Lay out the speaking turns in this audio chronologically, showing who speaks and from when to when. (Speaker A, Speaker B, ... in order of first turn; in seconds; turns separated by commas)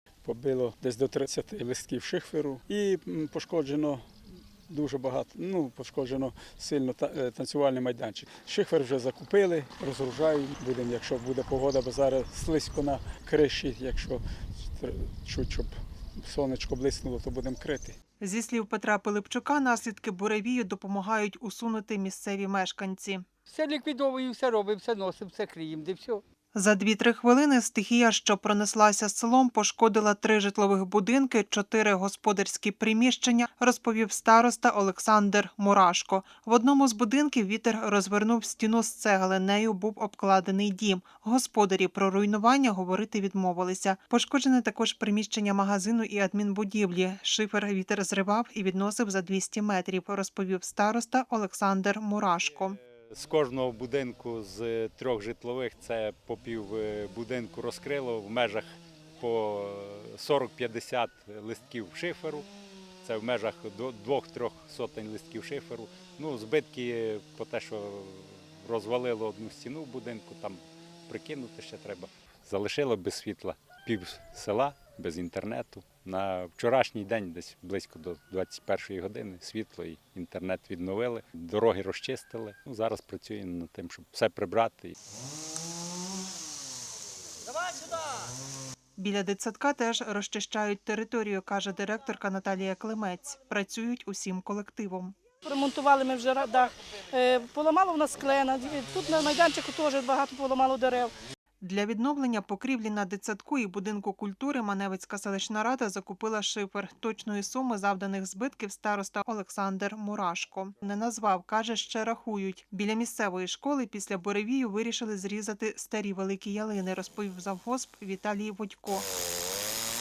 Speaker A: 0.2-4.1, Speaker A: 4.7-18.0, Speaker B: 18.2-23.2, Speaker C: 23.5-26.2, Speaker B: 26.5-52.8, Speaker D: 52.4-58.7, Speaker D: 59.2-62.5, Speaker D: 63.0-84.9, Speaker B: 89.0-95.1, Speaker E: 95.4-101.1, Speaker B: 101.6-119.0